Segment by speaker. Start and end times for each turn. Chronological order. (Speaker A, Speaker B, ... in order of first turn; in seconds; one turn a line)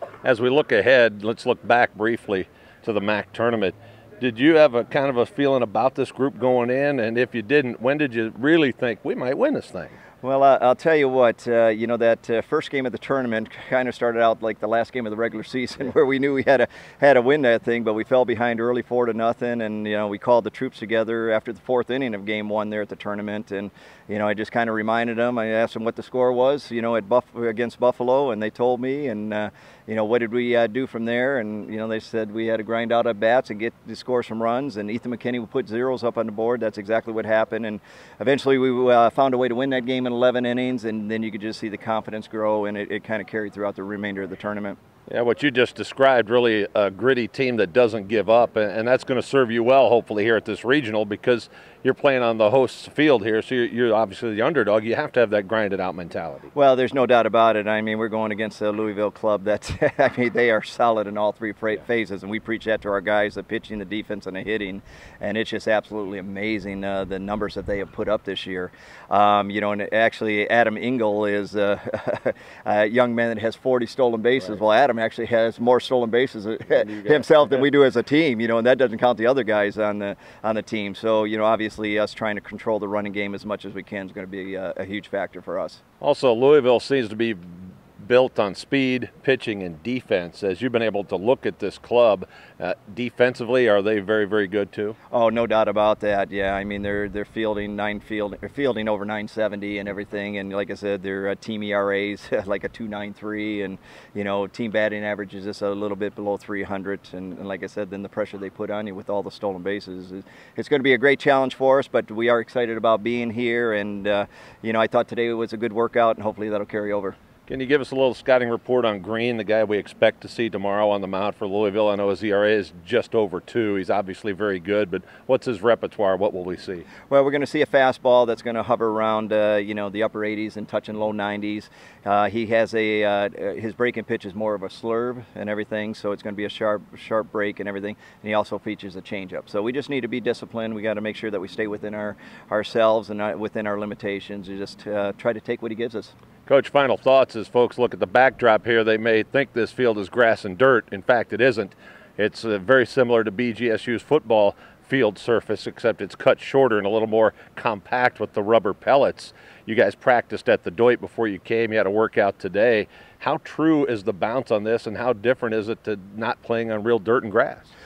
Speaker A: 0.2-9.9
Speaker B: 10.2-44.8
Speaker A: 45.1-56.5
Speaker B: 56.5-85.8
Speaker A: 76.7-77.5
Speaker A: 86.0-95.0
Speaker B: 95.1-117.2
Speaker A: 117.5-126.9
Speaker B: 127.1-146.1
Speaker A: 146.4-167.7